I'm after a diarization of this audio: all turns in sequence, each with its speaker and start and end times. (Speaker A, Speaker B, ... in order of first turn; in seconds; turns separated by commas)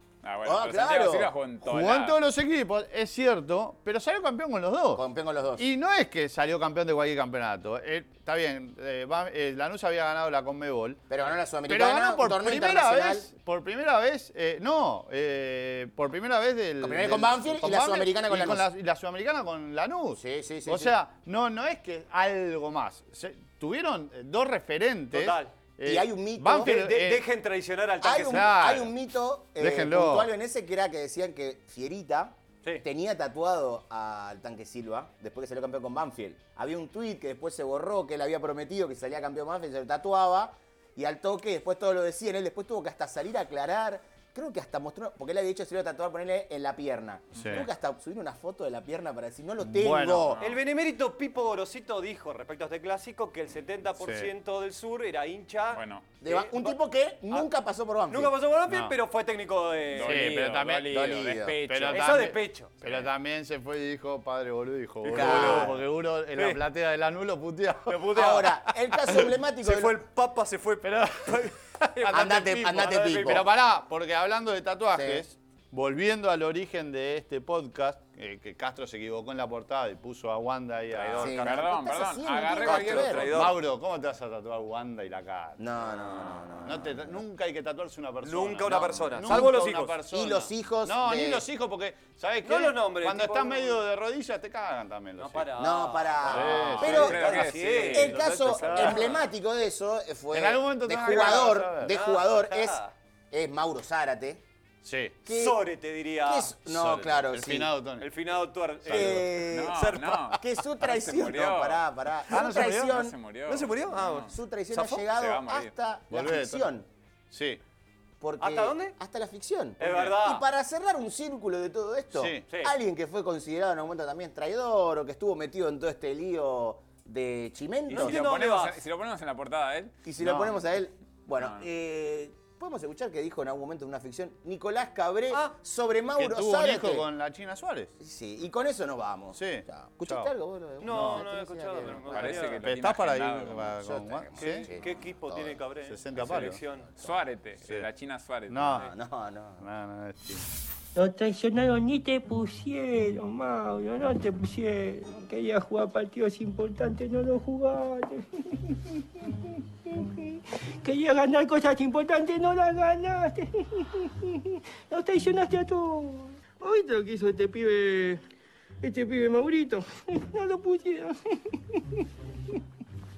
Speaker A: 0.2-2.2, Speaker B: 0.5-1.3, Speaker C: 1.6-5.0, Speaker B: 5.0-5.7, Speaker C: 5.6-11.0, Speaker B: 11.1-13.3, Speaker C: 11.7-27.3, Speaker B: 16.8-18.7, Speaker B: 20.2-21.0, Speaker D: 25.1-25.6, Speaker B: 25.8-26.8, Speaker D: 26.6-28.5, Speaker B: 28.0-50.4, Speaker C: 28.3-28.9, Speaker C: 29.6-30.3, Speaker C: 47.4-47.7, Speaker C: 49.6-50.4, Speaker A: 50.4-50.6, Speaker D: 50.4-56.8, Speaker C: 54.0-54.3, Speaker A: 55.7-56.1, Speaker B: 56.2-58.3, Speaker D: 58.1-60.2, Speaker C: 58.7-59.0, Speaker A: 59.9-62.3, Speaker C: 60.0-60.9, Speaker B: 60.9-61.6, Speaker C: 61.7-68.3, Speaker D: 61.9-62.7, Speaker D: 65.0-65.8, Speaker B: 65.1-65.7, Speaker D: 66.3-66.6, Speaker D: 67.9-68.6, Speaker B: 68.1-70.0, Speaker D: 69.6-73.5, Speaker C: 70.8-81.4, Speaker B: 72.1-73.5, Speaker B: 74.9-75.2, Speaker A: 80.9-83.5, Speaker B: 81.2-83.4, Speaker D: 82.6-83.6, Speaker C: 83.2-95.5, Speaker B: 85.6-87.2, Speaker D: 88.2-90.0, Speaker B: 88.7-91.5, Speaker D: 92.4-93.8, Speaker D: 95.2-99.2, Speaker B: 95.6-104.4, Speaker C: 96.2-97.2, Speaker A: 96.3-99.1, Speaker C: 98.6-99.1, Speaker C: 100.3-102.0, Speaker D: 101.9-102.9, Speaker C: 104.8-105.2, Speaker B: 105.2-105.7, Speaker D: 105.3-106.5, Speaker B: 106.2-107.7, Speaker C: 106.7-108.1, Speaker D: 108.0-110.3, Speaker C: 108.8-109.3, Speaker B: 108.9-113.2, Speaker A: 109.5-111.8, Speaker C: 112.3-113.0, Speaker A: 112.4-114.3, Speaker D: 113.5-115.0, Speaker B: 114.3-116.9, Speaker A: 115.2-115.7, Speaker C: 116.1-116.7, Speaker C: 117.3-117.6, Speaker B: 118.2-128.2, Speaker D: 118.4-119.0, Speaker D: 119.8-120.5, Speaker C: 122.1-122.5, Speaker D: 122.5-122.7, Speaker D: 127.9-128.8, Speaker A: 127.9-130.0, Speaker B: 130.0-137.1, Speaker C: 130.2-130.5, Speaker A: 131.4-131.6, Speaker D: 135.3-135.6, Speaker C: 136.2-137.9, Speaker B: 138.0-142.6, Speaker C: 139.3-140.3, Speaker D: 140.8-142.7, Speaker C: 140.8-141.2, Speaker A: 142.1-143.8, Speaker C: 142.6-144.7, Speaker B: 143.8-145.5, Speaker D: 144.4-146.9, Speaker C: 145.8-146.6, Speaker A: 147.0-148.9, Speaker C: 148.5-148.9, Speaker B: 148.7-149.7, Speaker C: 149.6-150.4, Speaker E: 151.0-168.2, Speaker E: 168.8-172.1